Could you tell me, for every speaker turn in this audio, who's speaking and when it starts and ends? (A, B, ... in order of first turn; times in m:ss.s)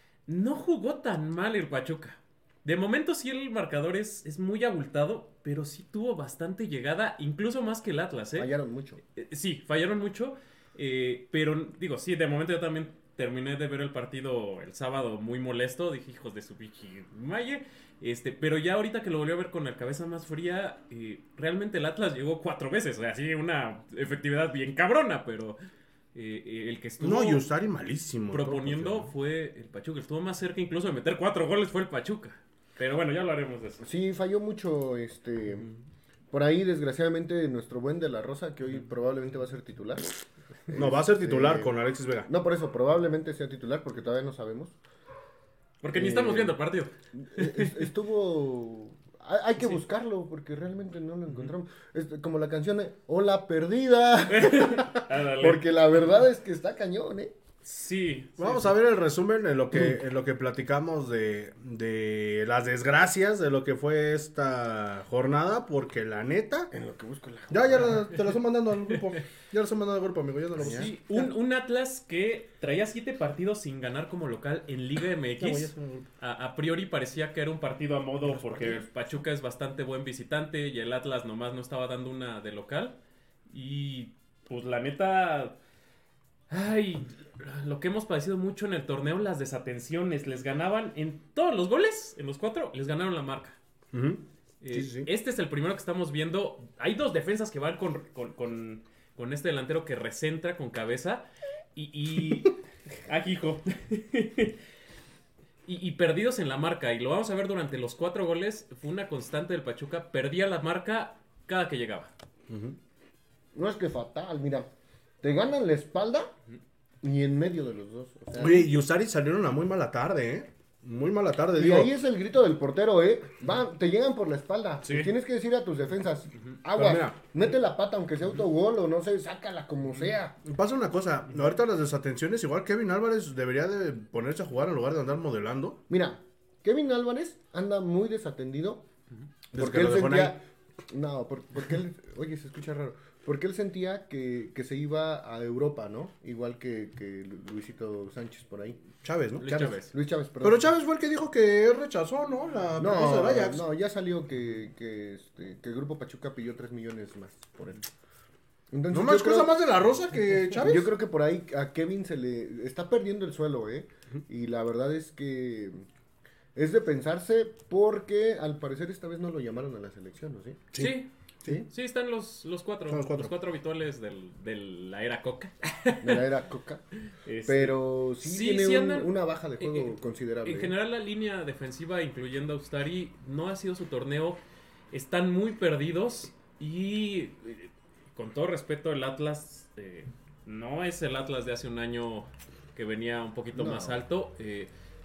0:00.3-0:08.5 A
0:08.4-0:09.0 B
0:09.2-0:25.6 A
0:26.2-0:27.4 A
0:27.0-0:29.1 C
0:28.3-0:33.8 A
0:33.8-0:35.7 B
0:36.3-0:41.7 B
0:40.7-0:42.3 C
0:42.3-0:44.8 B
0:45.8-0:47.9 A
0:45.9-0:46.6 B
0:47.2-0:57.3 B
0:54.3-0:55.6 A
0:57.6-0:58.7 A
0:58.4-1:06.7 C
1:06.7-1:08.1 B
1:07.5-1:10.9 C
1:10.6-1:11.3 B
1:10.6-1:23.0 A
1:15.4-1:16.1 C
1:18.5-1:18.8 B
1:23.5-1:25.6 A
1:26.5-1:33.6 A
1:33.9-1:35.1 C
1:34.6-1:42.6 A
1:43.1-1:44.6 A
1:45.7-1:52.1 A
1:52.5-1:52.8 C
1:53.6-1:54.7 B
1:55.2-1:56.3 B
1:57.0-1:58.7 B
1:58.4-2:01.9 C
2:01.6-2:10.4 B
2:06.8-2:07.2 C
2:10.4-2:15.8 C
2:15.9-2:18.8 B
2:19.5-2:28.8 B
2:19.6-2:20.3 C
2:29.0-2:29.7 C
2:29.4-2:29.9 A
2:29.4-2:30.7 B
2:30.4-2:33.6 C
2:32.8-2:37.8 B
2:38.7-2:39.6 B
2:38.9-2:40.9 C
2:40.6-2:45.9 B
2:46.6-2:50.7 B
2:50.7-2:51.6 C
2:50.8-2:51.1 A
2:51.6-2:56.3 A
2:52.9-2:53.3 C
2:56.0-2:56.8 B
2:57.1-2:59.9 A
2:57.5-3:00.7 B
3:00.4-3:04.4 A
3:04.9-3:14.7 A
3:13.5-3:14.0 B